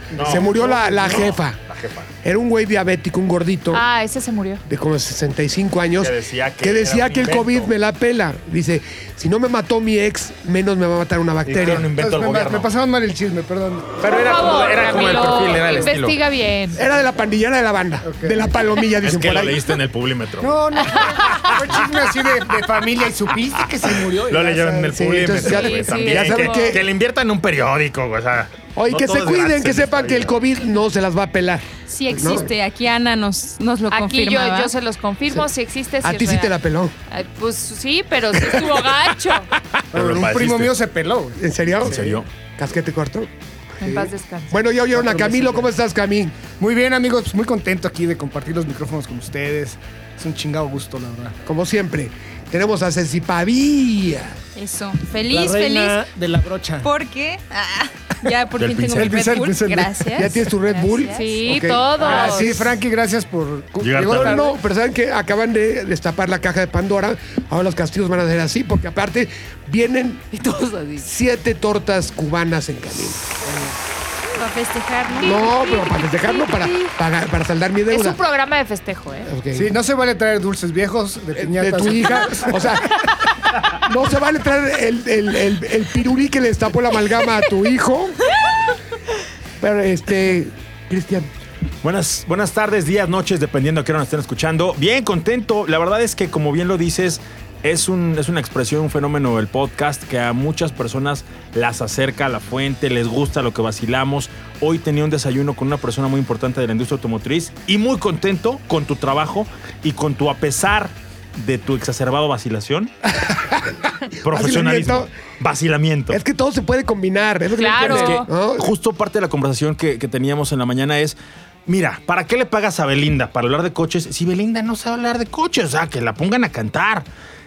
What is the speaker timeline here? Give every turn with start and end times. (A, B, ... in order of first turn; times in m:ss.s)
0:00.1-0:02.1 A
0:00.2-0:01.1 B
0:00.2-0:01.6 C
0:02.2-0:03.8 C
0:03.7-0:04.6 D
0:04.7-0:11.9 C
0:06.0-0:07.7 A
0:11.5-0:12.7 A
0:11.6-0:13.9 B
0:14.0-0:16.2 A
0:14.0-0:16.8 D
0:16.7-0:19.6 C
0:18.1-0:18.6 B
0:19.0-0:20.6 A
0:20.4-0:25.7 B
0:20.9-0:21.3 D
0:21.4-0:22.4 A
0:23.9-0:30.4 A
0:24.9-0:26.8 C
0:25.5-0:26.8 D
0:28.8-0:32.5 C
0:31.9-0:34.7 E
0:33.9-0:36.6 D
0:36.0-0:36.9 C
0:37.1-0:39.5 D
0:38.5-0:38.8 C
0:39.9-0:41.4 B
0:39.9-0:40.8 A
0:41.4-0:43.3 C
0:41.8-0:42.2 A
0:43.8-0:44.5 D
0:43.8-0:44.1 B
0:44.5-0:46.4 C
0:44.9-0:45.7 B
0:46.6-0:51.3 B
0:51.5-0:54.4 C
0:54.6-0:56.1 E
0:55.3-0:56.9 B
0:56.8-1:01.4 E
0:58.6-0:59.3 A
0:58.9-1:00.3 B
1:00.2-1:01.2 C
1:01.1-1:02.7 D
1:01.5-1:04.5 B
1:02.1-1:02.8 C
1:03.8-1:04.5 A
1:04.0-1:10.2 C
1:10.3-1:11.1 D
1:11.0-1:13.4 C
1:13.5-1:13.7 B
1:14.4-1:15.6 E
1:15.1-1:16.9 D
1:15.2-1:18.2 C
1:17.9-1:19.3 D
1:19.3-1:19.8 C
1:19.5-1:22.8 B
1:21.4-1:23.2 C
1:23.7-1:28.2 C
1:29.6-1:31.3 C
1:31.8-1:52.9 A
1:53.2-1:55.1 C
1:54.2-1:56.2 A
1:56.1-1:58.7 C
1:57.6-1:58.3 D
1:57.8-2:01.2 A
2:01.7-2:07.1 A